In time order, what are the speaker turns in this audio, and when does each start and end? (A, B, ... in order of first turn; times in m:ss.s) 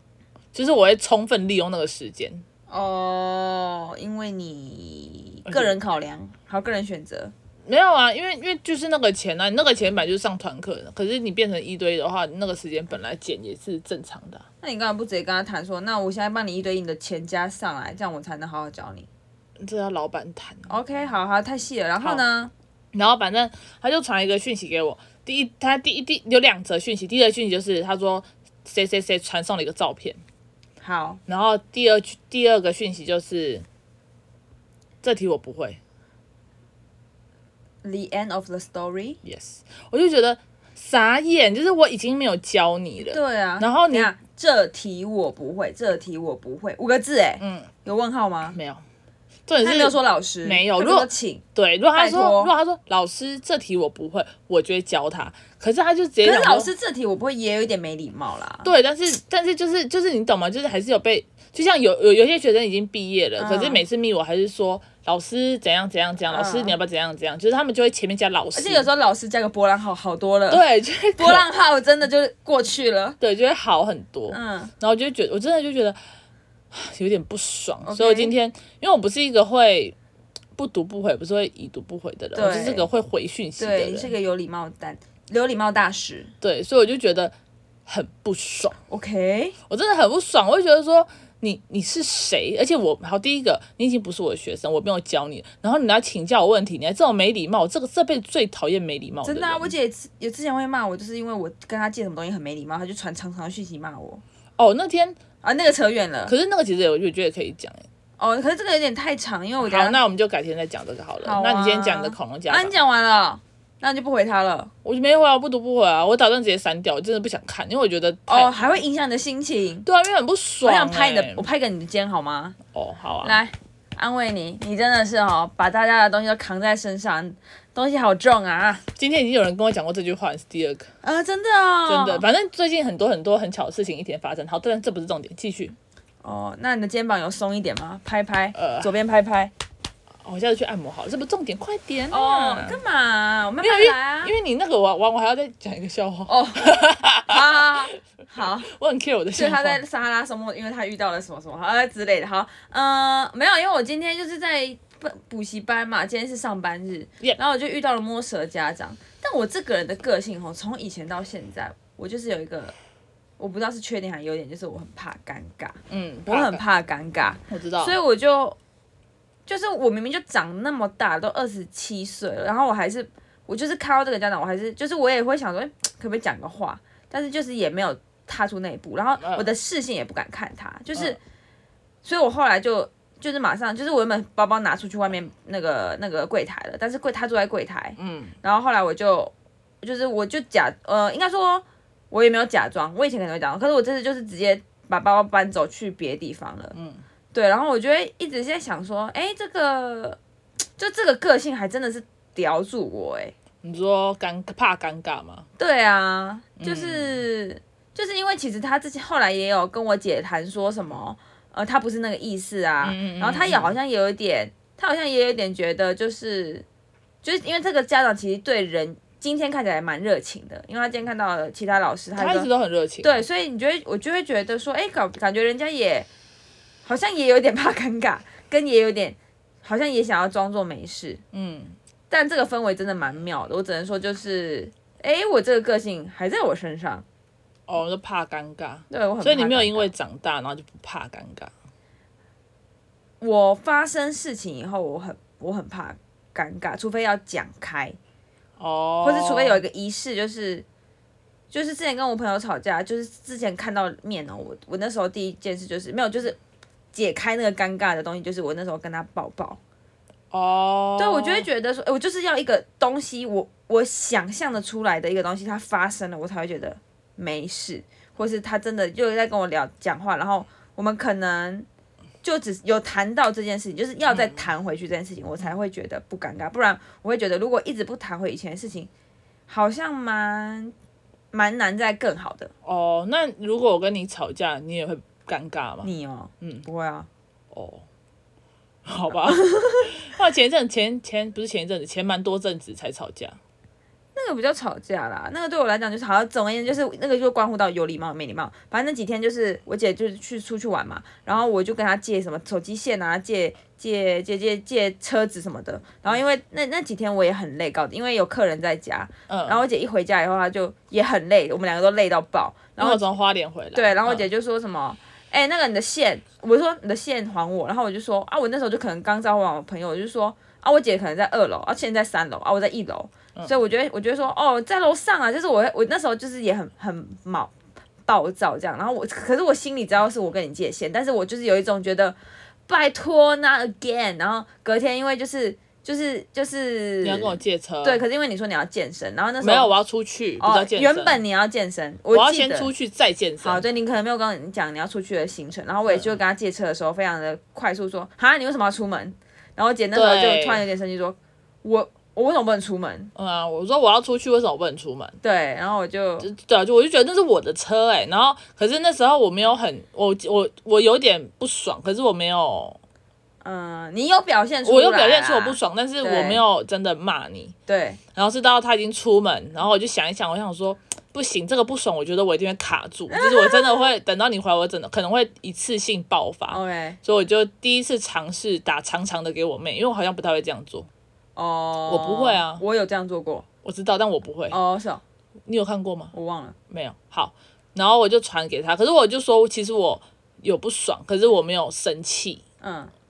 0:00.5-0:02.4 A
0:02.7-0:07.3 B
0:05.5-0:05.8 A
0:07.7-0:14.4 A
0:14.6-0:19.1 B
0:19.6-0:20.7 A
0:20.7-0:22.5 B
0:22.9-0:30.2 A
0:30.8-0:31.2 B
0:31.3-0:33.7 A
0:35.0-0:35.8 A
0:37.8-0:39.2 B
0:39.2-0:44.1 A
0:43.0-0:48.6 B
0:47.4-0:47.7 A
0:48.5-0:48.8 A
0:49.5-0:56.7 A
0:49.6-0:51.4 B
0:52.0-0:52.5 B
0:56.2-0:58.7 B
0:58.6-1:08.9 A
1:03.4-1:03.8 B
1:06.3-1:06.8 B
1:08.5-1:10.6 B
1:10.5-1:11.4 A
1:11.2-1:13.2 B
1:13.2-1:16.0 A
1:14.3-1:14.7 B
1:16.7-1:20.0 A
1:17.8-1:18.3 B
1:20.6-1:24.1 A
1:22.4-1:22.9 B
1:23.6-1:26.3 B
1:26.4-1:27.4 A
1:27.9-1:28.8 A
1:28.9-1:29.6 B
1:29.7-1:39.7 A
1:39.2-1:44.2 B
1:44.6-1:45.2 A
1:45.4-1:46.3 B
1:46.3-1:47.9 A
1:48.2-1:50.0 B
1:49.6-1:52.8 A
1:51.2-1:54.7 B
1:54.8-1:58.8 A
1:58.3-1:59.9 B
1:59.8-2:01.5 A
2:00.6-2:02.6 B
2:02.7-2:03.4 A
2:03.2-2:08.8 B
2:09.0-2:10.9 A
2:11.0-2:12.2 B
2:11.9-2:15.8 A
2:16.2-2:19.5 B
2:18.6-2:18.9 A
2:20.2-2:22.8 A
2:22.1-2:24.3 B
2:23.6-2:27.7 A
2:26.3-2:28.7 B
2:28.6-2:29.8 A
2:29.4-2:42.7 B
2:43.4-2:48.6 B
2:45.9-2:46.6 A
2:47.5-2:48.0 A
2:49.5-3:01.2 B
2:59.2-2:59.5 A
3:02.0-3:16.7 B
3:08.0-3:08.4 A
3:16.7-3:17.0 A
3:17.3-3:20.2 B
3:20.8-3:23.3 B
3:23.6-3:25.5 A
3:25.6-3:36.6 B
3:26.6-3:27.2 A
3:32.8-3:33.8 A
3:37.2-3:42.5 B
3:42.2-3:43.2 A
3:43.0-3:46.1 B
3:46.8-3:51.2 B
3:51.3-3:51.8 A
3:52.1-3:57.0 B
3:57.7-4:01.5 A
3:58.9-3:59.9 B
4:03.2-4:08.0 B
4:08.6-4:09.6 A
4:09.0-4:10.6 B
4:11.5-4:16.4 B
4:16.9-4:19.6 B
4:20.3-4:21.5 A
4:21.0-4:31.7 B
4:32.2-4:38.9 B
4:34.1-4:34.5 A
4:39.5-4:40.7 B
4:41.3-4:42.5 B
4:42.6-4:46.7 A
4:45.8-4:47.1 B
4:47.5-4:47.9 A
4:48.8-4:53.4 A
4:54.2-5:13.0 B
5:09.3-5:09.6 A
5:12.8-5:14.3 A
5:13.7-5:27.5 B
5:28.1-5:39.7 B
5:37.0-5:38.0 A
5:39.4-5:41.2 A
5:40.4-5:42.7 B
5:42.1-5:43.6 A
5:43.4-5:53.1 B
5:45.9-5:46.1 A
5:49.9-5:50.6 A
5:53.2-5:55.2 A
5:55.2-5:56.3 B
5:56.2-6:02.8 A
6:03.4-6:06.4 B
6:04.6-6:07.6 A
6:07.7-6:08.0 B
6:08.2-6:20.9 A
6:13.1-6:13.8 B
6:16.5-6:17.0 B
6:21.4-6:23.5 B
6:21.9-6:22.6 A
6:23.6-6:24.6 A
6:24.5-6:25.0 B
6:25.5-6:26.1 A
6:26.1-6:26.6 B
6:26.7-6:32.4 A
6:32.6-6:32.9 B